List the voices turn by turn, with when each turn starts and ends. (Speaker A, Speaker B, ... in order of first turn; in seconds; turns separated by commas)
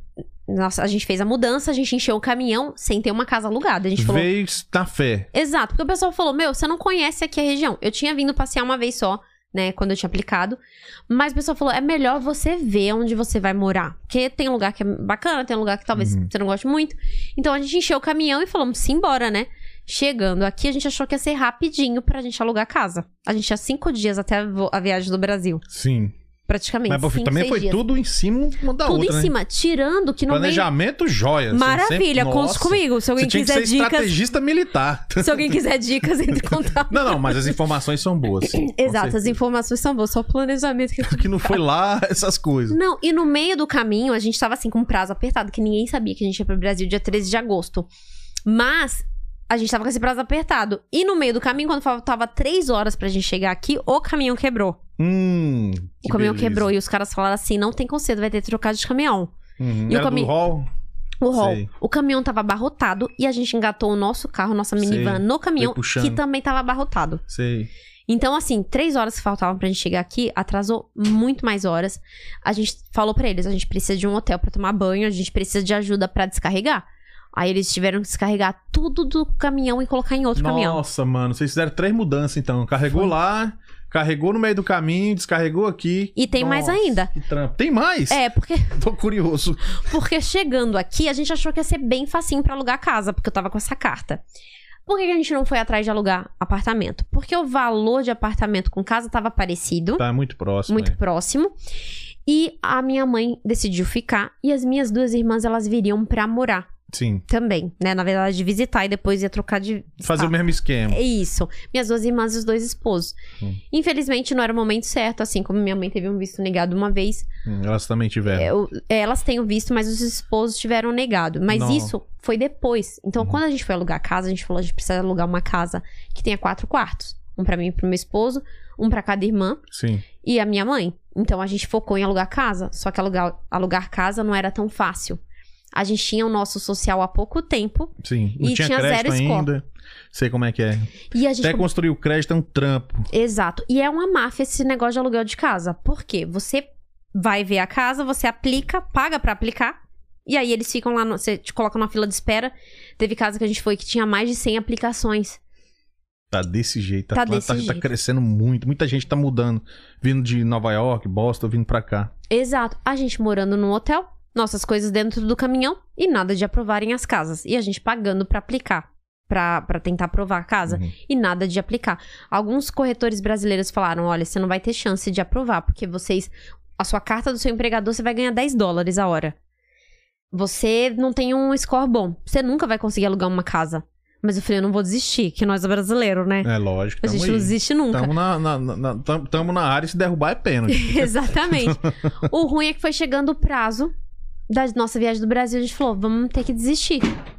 Speaker A: 0.5-4.3, Speaker B: 4.0-5.3, Speaker A: 5.3-25.6, Speaker B: 16.0-16.3, Speaker B: 25.7-26.1, Speaker A: 26.5-27.8, Speaker B: 26.9-29.3, Speaker A: 28.8-30.7, Speaker B: 30.3-35.5, Speaker A: 31.5-34.2, Speaker A: 35.2-37.5, Speaker B: 36.9-39.3, Speaker A: 38.5-41.6, Speaker B: 41.1-42.8, Speaker A: 42.7-47.9, Speaker A: 48.5-54.8, Speaker B: 55.0-56.7, Speaker A: 56.0-59.3, Speaker B: 59.6-60.7, Speaker A: 59.9-60.3, Speaker A: 61.2-67.2, Speaker B: 61.4-61.7, Speaker B: 64.8-66.2, Speaker B: 67.3-67.7, Speaker A: 68.1-80.8, Speaker B: 80.4-88.2, Speaker A: 86.2-87.1, Speaker A: 88.1-88.8, Speaker B: 88.8-89.8, Speaker A: 89.9-94.2, Speaker A: 94.9-100.0, Speaker B: 100.0-101.0, Speaker A: 100.7-101.5, Speaker A: 102.3-106.7, Speaker B: 106.9-107.2, Speaker A: 107.3-110.3, Speaker B: 110.0-111.0, Speaker A: 110.9-113.2, Speaker A: 113.7-117.3, Speaker B: 117.5-118.5, Speaker A: 118.3-129.6, Speaker B: 121.5-121.9, Speaker B: 129.7-130.0, Speaker A: 130.2-135.2, Speaker A: 135.7-139.5, Speaker B: 138.0-140.9, Speaker A: 141.1-141.7, Speaker B: 141.4-143.1, Speaker A: 143.1-155.4, Speaker B: 156.3-162.1, Speaker A: 157.1-157.8, Speaker A: 162.3-179.3, Speaker B: 170.7-170.9, Speaker A: 180.3-186.5, Speaker B: 186.4-191.1, Speaker A: 187.0-188.1, Speaker A: 190.7-193.9, Speaker B: 191.6-192.1, Speaker A: 194.5-197.1